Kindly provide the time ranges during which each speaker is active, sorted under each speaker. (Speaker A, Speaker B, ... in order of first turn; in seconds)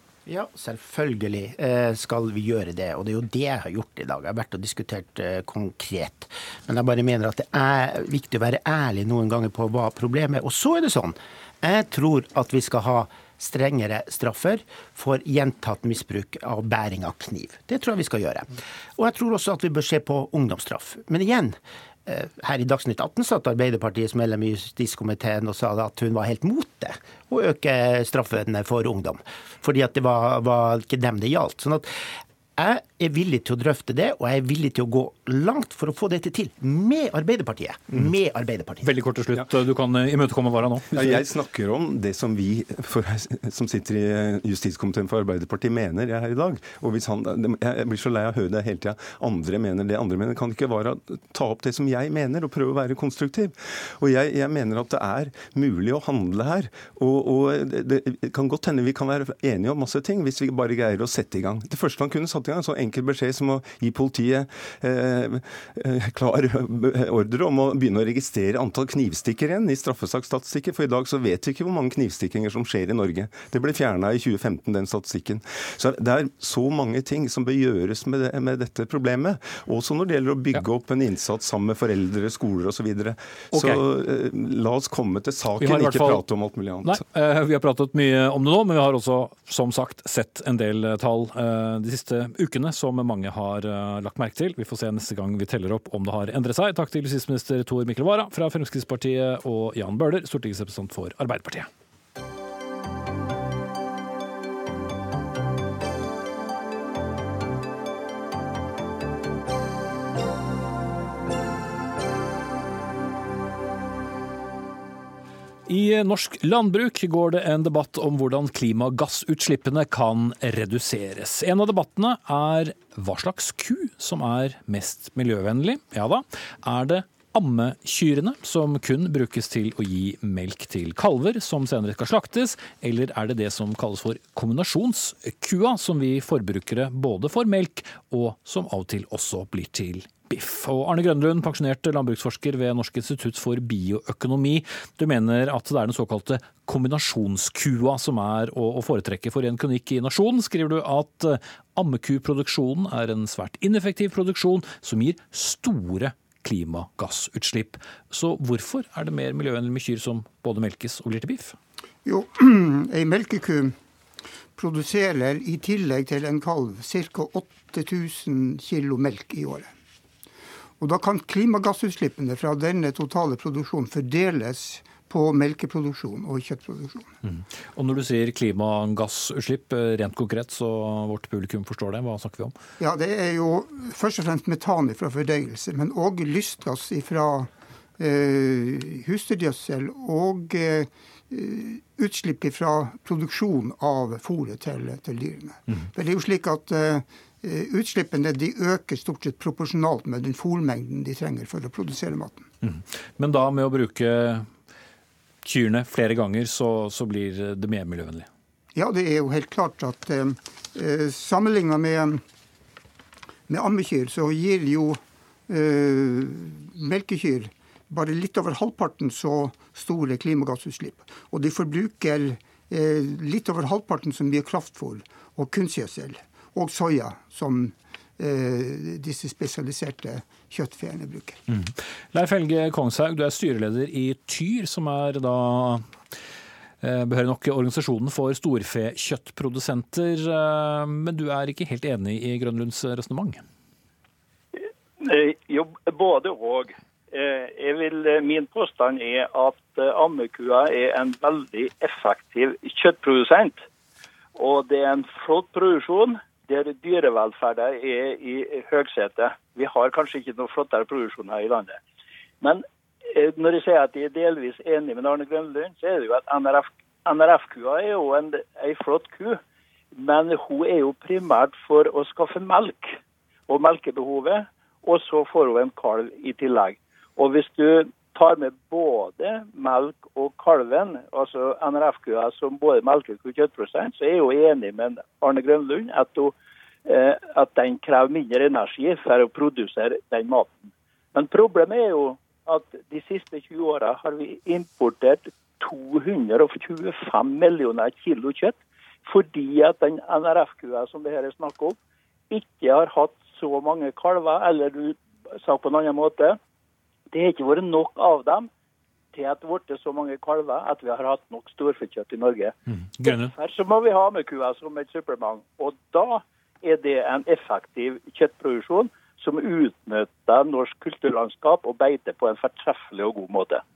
Speaker A: 0.3-31.9, 32.6-38.9
Speaker B: 38.8-41.2, 83.5-83.8, 85.6-86.2, 86.8-101.7, 115.7-161.6, 177.2-182.6, 202.6-204.5, 205.4-208.3, 231.5-236.0, 236.8-243.4, 312.7-313.3
Speaker C: 40.9-87.0
Speaker D: 162.1-163.8, 164.6-169.7, 170.8-177.1, 182.8-202.5, 208.8-212.2, 213.5-231.4
Speaker E: 244.6-253.6, 254.4-261.8, 262.4-269.4, 269.9-273.0, 273.5-286.3, 286.9-301.8, 302.3-306.4, 307.1-308.5, 309.1-323.6